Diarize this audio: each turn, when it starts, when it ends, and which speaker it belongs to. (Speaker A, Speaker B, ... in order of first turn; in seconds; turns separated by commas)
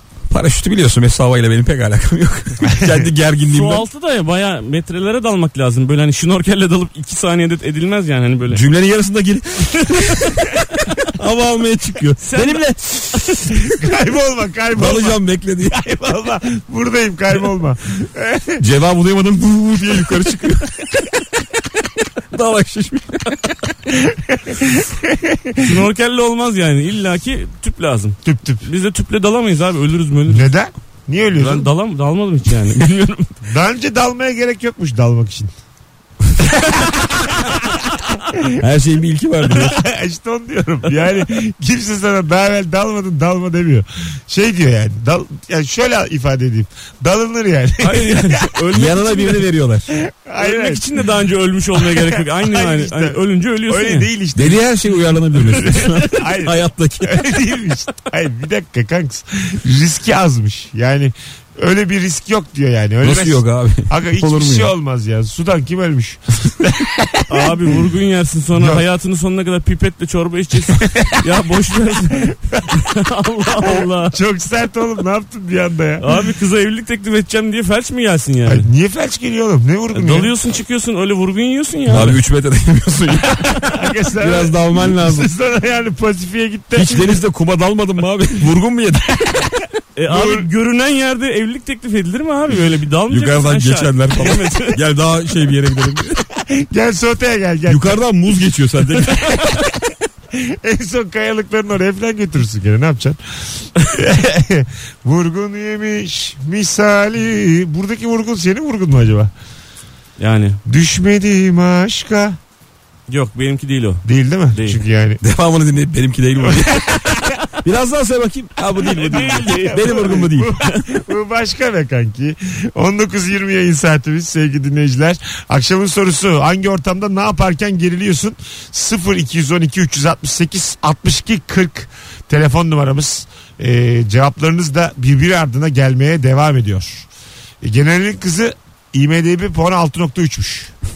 Speaker A: 0.3-3.8, Speaker B: 2.7-3.1, Speaker C: 3.5-8.6, Speaker A: 8.5-13.6, Speaker C: 12.2-13.1, Speaker B: 13.7-18.6, Speaker A: 14.7-15.8, Speaker A: 18.6-21.1, Speaker A: 22.3-23.6, Speaker B: 23.9-25.8, Speaker C: 25.6-30.5, Speaker B: 28.2-28.7, Speaker B: 30.3-31.7, Speaker C: 31.3-33.3, Speaker B: 33.4-35.5, Speaker B: 36.4-38.6, Speaker A: 38.5-39.8, Speaker B: 39.4-48.6, Speaker C: 47.8-49.4, Speaker A: 48.7-49.9, Speaker B: 50.0-51.0, Speaker C: 50.4-54.1, Speaker B: 51.7-54.6, Speaker A: 54.3-57.3, Speaker B: 55.5-67.5, Speaker A: 63.0-64.7, Speaker C: 67.3-74.2, Speaker B: 68.5-68.8, Speaker B: 70.7-71.2, Speaker B: 72.2-72.8, Speaker B: 73.6-76.0, Speaker C: 76.0-78.7, Speaker B: 78.4-80.3, Speaker C: 79.9-82.2, Speaker A: 81.9-85.3, Speaker B: 83.7-87.2, Speaker A: 86.7-89.5, Speaker C: 90.0-94.8, Speaker B: 90.1-90.5, Speaker A: 93.1-96.2, Speaker B: 96.4-98.0, Speaker A: 97.7-99.4, Speaker B: 99.0-99.7, Speaker B: 100.3-109.3, Speaker C: 110.2-110.6, Speaker B: 110.7-112.4, Speaker C: 113.1-114.8, Speaker B: 114.0-115.2, Speaker A: 115.2-120.5, Speaker B: 116.4-117.4, Speaker C: 119.0-120.8, Speaker B: 119.3-137.1, Speaker B: 137.6-140.7